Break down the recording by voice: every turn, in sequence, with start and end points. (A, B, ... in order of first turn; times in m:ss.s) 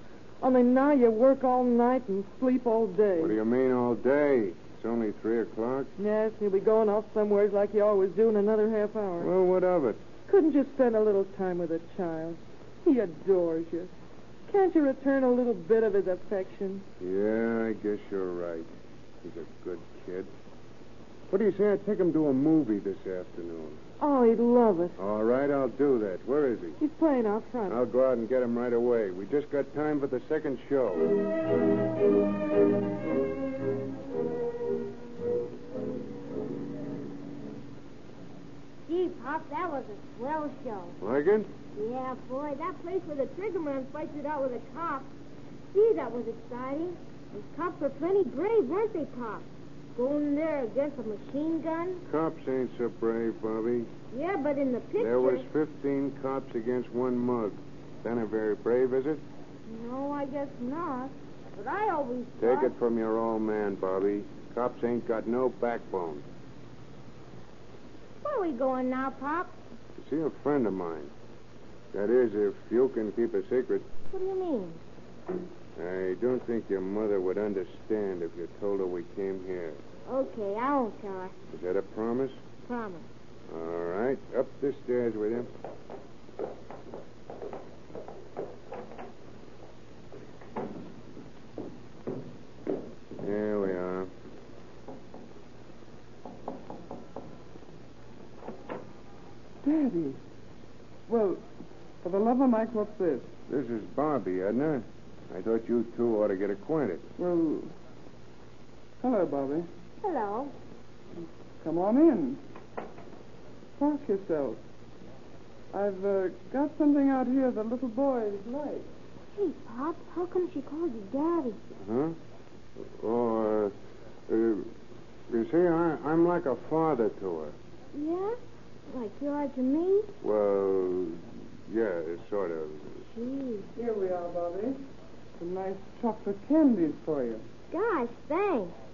0:00.4-0:03.4 A
0:03.2-0:05.9 B
0:06.0-0:09.3 A
0:09.2-0:10.0 B
0:10.3-0:13.9 A
0:14.5-0:16.8 A
0:17.0-0:18.7 B
0:19.2-0:20.3 B
0:21.3-0:23.8 B
0:24.0-0:25.0 A
0:25.0-0:26.8 B
0:26.8-0:27.8 A
0:27.7-0:31.1 B
0:38.9-0:41.0 C
0:41.0-0:41.5 B
0:41.7-0:45.1 C
0:45.7-0:49.4 C
0:50.0-0:52.0 C
0:52.1-0:53.9 B
0:54.1-0:55.5 C
0:55.0-0:59.2 B
0:59.6-1:02.7 C
1:02.4-1:06.2 B
1:08.2-1:09.6 C
1:10.0-1:11.1 B
1:11.9-1:13.9 B
1:14.1-1:14.8 C
1:15.8-1:19.8 B
1:20.0-1:21.3 C
1:21.5-1:22.4 B
1:22.6-1:23.0 C
1:23.5-1:25.5 B
1:33.2-1:34.1 B
1:39.6-1:40.2 D
1:41.1-1:41.4 D
1:42.0-1:43.3 D
1:43.5-1:47.1 B
1:47.2-1:47.7 D
1:49.0-1:49.7 D
1:50.0-1:50.5 C
1:51.6-1:52.4 D
1:53.8-1:54.6 D
1:55.7-1:58.9 D
1:59.3-2:01.6 C
2:01.8-2:02.2 B
2:02.9-2:03.7 B
2:04.3-2:04.7 B
2:05.3-2:07.5 B
2:07.9-2:10.1 C
2:10.2-2:13.0 B
2:13.0-2:13.7 C
2:13.8-2:14.8 D
2:15.4-2:17.4 D
2:17.7-2:18.7 C